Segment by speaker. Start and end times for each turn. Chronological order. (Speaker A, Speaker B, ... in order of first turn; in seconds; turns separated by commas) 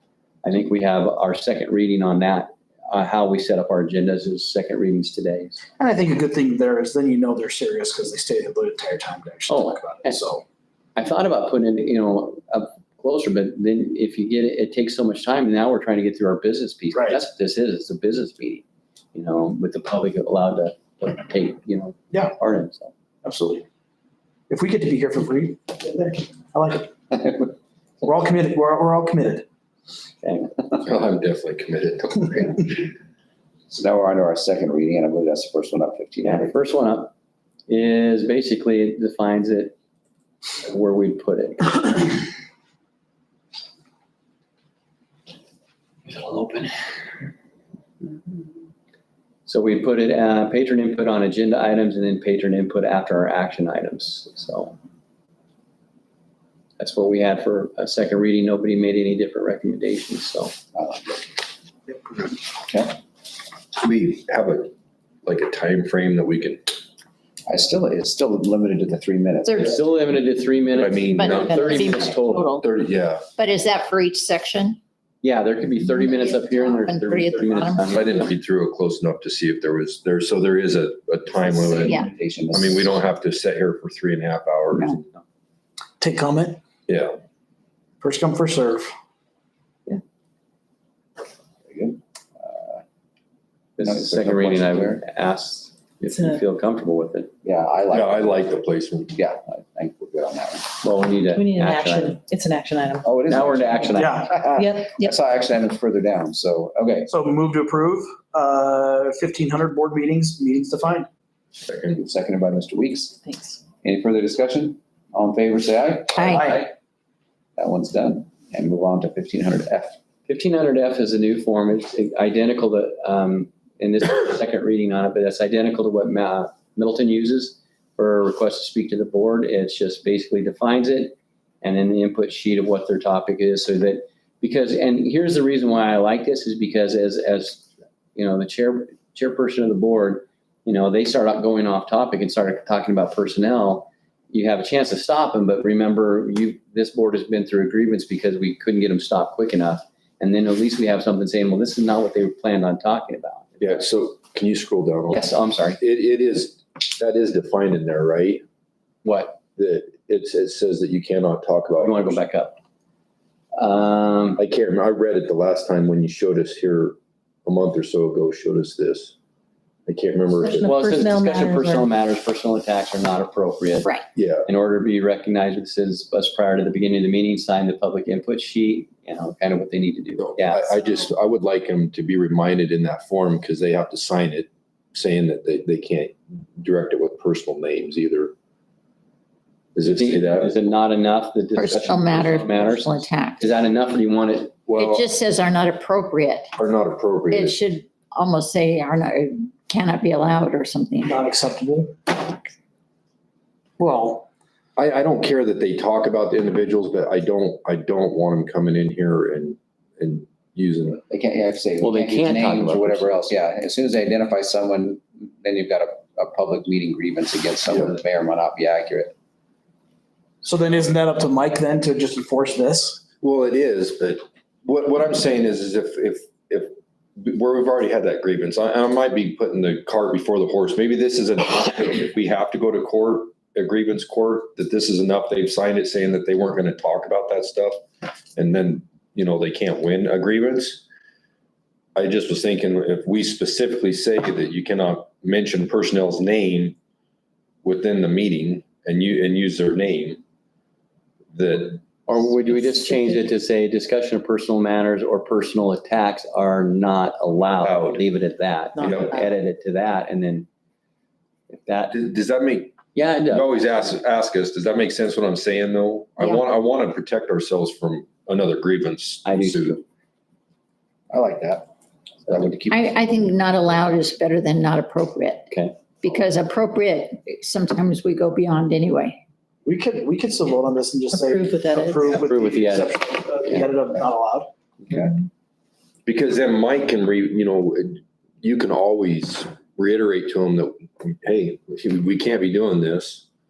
Speaker A: 0.4-5.6, Speaker B: 5.8-10.4, Speaker A: 9.5-10.3, Speaker A: 10.9-22.9, Speaker B: 23.2-23.6, Speaker B: 24.5-26.9, Speaker C: 27.1-27.5, Speaker B: 28.0-29.4, Speaker A: 30.2-30.6, Speaker D: 30.8-32.9, Speaker C: 33.7-36.5, Speaker A: 36.2-37.1, Speaker A: 37.7-39.8, Speaker A: 40.6-42.3, Speaker A: 46.0-46.9, Speaker A: 49.5-54.8, Speaker A: 56.8-60.5, Speaker C: 60.7-61.3, Speaker C: 62.5-63.0, Speaker D: 63.8-64.7, Speaker D: 65.2-66.8, Speaker C: 67.5-69.7, Speaker A: 69.5-72.5, Speaker D: 70.8-72.0, Speaker E: 71.2-72.7, Speaker D: 72.5-73.3, Speaker E: 73.4-74.8, Speaker A: 75.2-78.3, Speaker E: 75.9-77.8, Speaker D: 77.8-82.0, Speaker C: 81.3-83.0, Speaker E: 81.8-82.1, Speaker D: 82.5-85.0, Speaker B: 86.0-86.6, Speaker D: 86.9-87.2, Speaker B: 88.0-88.9, Speaker C: 91.7-92.8, Speaker A: 93.8-97.3, Speaker C: 93.8-95.0, Speaker F: 96.1-96.4, Speaker C: 97.4-100.7, Speaker D: 97.9-99.1, Speaker A: 100.8-102.2, Speaker F: 101.3-105.1, Speaker C: 103.0-107.1, Speaker A: 103.3-104.3, Speaker B: 104.0-104.3, Speaker B: 107.1-111.1, Speaker D: 111.6-112.0, Speaker C: 111.9-113.2, Speaker F: 113.2-113.6, Speaker C: 113.8-116.7, Speaker E: 116.2-116.4, Speaker F: 116.3-116.6, Speaker C: 117.6-120.0, Speaker A: 120.3-153.8, Speaker D: 153.6-158.4, Speaker A: 155.1-155.8, Speaker A: 159.0-159.4, Speaker D: 159.6-162.2, Speaker A: 161.8-162.6, Speaker A: 163.6-164.4, Speaker D: 164.4-169.1, Speaker D: 169.9-170.8, Speaker F: 170.4-171.9, Speaker A: 170.6-173.9, Speaker D: 174.1-174.5, Speaker A: 174.4-180.8, Speaker D: 180.2-188.3, Speaker D: 189.7-190.6, Speaker A: 189.9-194.6, Speaker E: 191.5-193.5, Speaker D: 194.7-195.1, Speaker E: 194.8-196.5, Speaker D: 196.6-197.6, Speaker E: 197.3-201.1, Speaker B: 201.0-202.1, Speaker B: 203.8-204.3, Speaker D: 204.8-211.0, Speaker C: 211.0-219.1, Speaker A: 211.8-213.1, Speaker D: 217.7-217.9, Speaker B: 220.4-223.0, Speaker D: 223.2-237.8, Speaker D: 238.3-240.8, Speaker D: 241.9-246.8, Speaker D: 247.6-250.2, Speaker D: 251.3-251.8, Speaker A: 252.1-260.5, Speaker D: 257.6-258.0, Speaker D: 258.8-259.2, Speaker A: 261.5-261.9, Speaker D: 261.9-262.8, Speaker A: 262.9-263.9, Speaker D: 263.3-269.8, Speaker A: 269.2-269.8, Speaker C: 271.1-271.7, Speaker C: 272.3-272.9, Speaker E: 272.7-275.5, Speaker A: 275.5-275.8, Speaker E: 276.0-279.2, Speaker B: 279.6-284.5, Speaker F: 281.1-282.2, Speaker A: 282.1-283.7, Speaker D: 286.0-293.2